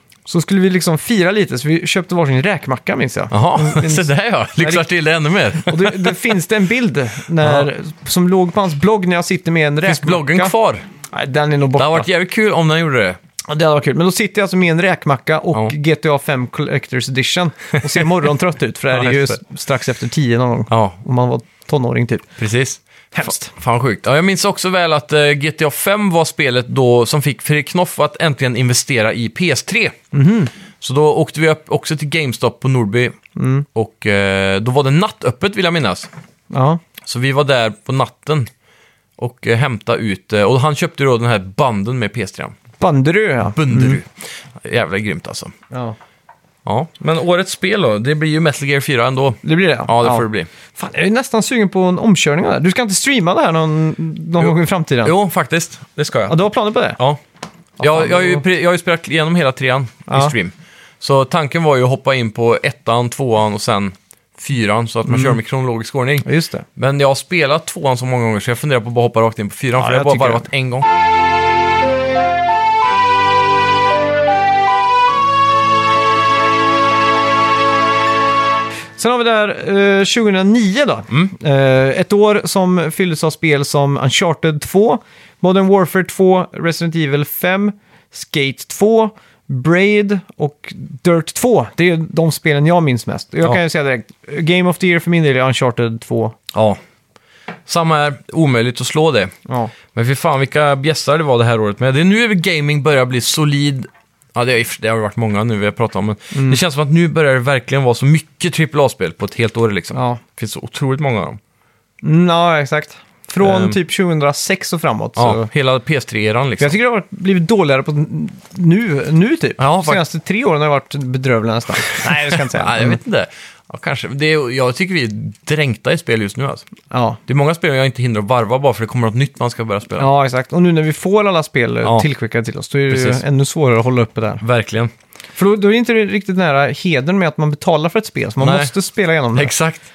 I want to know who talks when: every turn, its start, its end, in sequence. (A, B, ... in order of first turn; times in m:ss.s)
0:00.3-0:04.9 A
0:03.3-0:06.2 B
0:05.6-0:10.5 A
0:07.4-0:07.7 B
0:09.8-0:10.9 B
0:11.1-0:12.1 A
0:11.8-0:13.2 B
0:13.5-0:22.3 A
0:18.9-0:19.4 B
0:20.7-0:21.0 B
0:22.4-0:30.0 B
0:23.1-0:23.5 A
0:30.1-0:30.5 A
0:30.8-0:33.2 B
0:33.4-0:33.7 A
0:33.8-0:36.1 B
0:36.5-0:36.8 A
0:37.0-0:38.5 B
0:39.2-0:42.6 B
0:42.8-0:44.0 A
0:43.5-0:45.5 B
0:45.7-0:46.0 A
0:46.6-0:50.5 B
0:49.4-0:55.1 A
0:54.4-0:56.4 B
0:56.3-0:57.0 A
0:57.8-0:58.4 A
0:57.8-1:10.9 B
1:00.1-1:00.3 A
1:05.1-1:05.4 A
1:06.2-1:06.6 A
1:09.8-1:10.5 A
1:19.0-1:36.4 A
1:36.5-1:36.8 B
1:37.7-1:39.3 B
1:39.5-1:39.7 A
1:39.9-1:51.4 B
1:46.3-1:46.6 A
1:49.9-1:50.2 A
1:52.0-1:55.5 A
1:53.4-1:53.8 B
1:55.2-1:56.7 B
1:56.6-2:03.0 A
1:59.6-2:00.0 B
2:01.9-2:06.7 B
2:06.9-2:07.2 A
2:07.3-2:10.1 B
2:10.0-2:14.4 A
2:12.9-2:13.2 B
2:14.4-2:14.9 B
2:15.4-2:19.6 A
2:18.4-2:18.7 B
2:19.4-2:19.8 B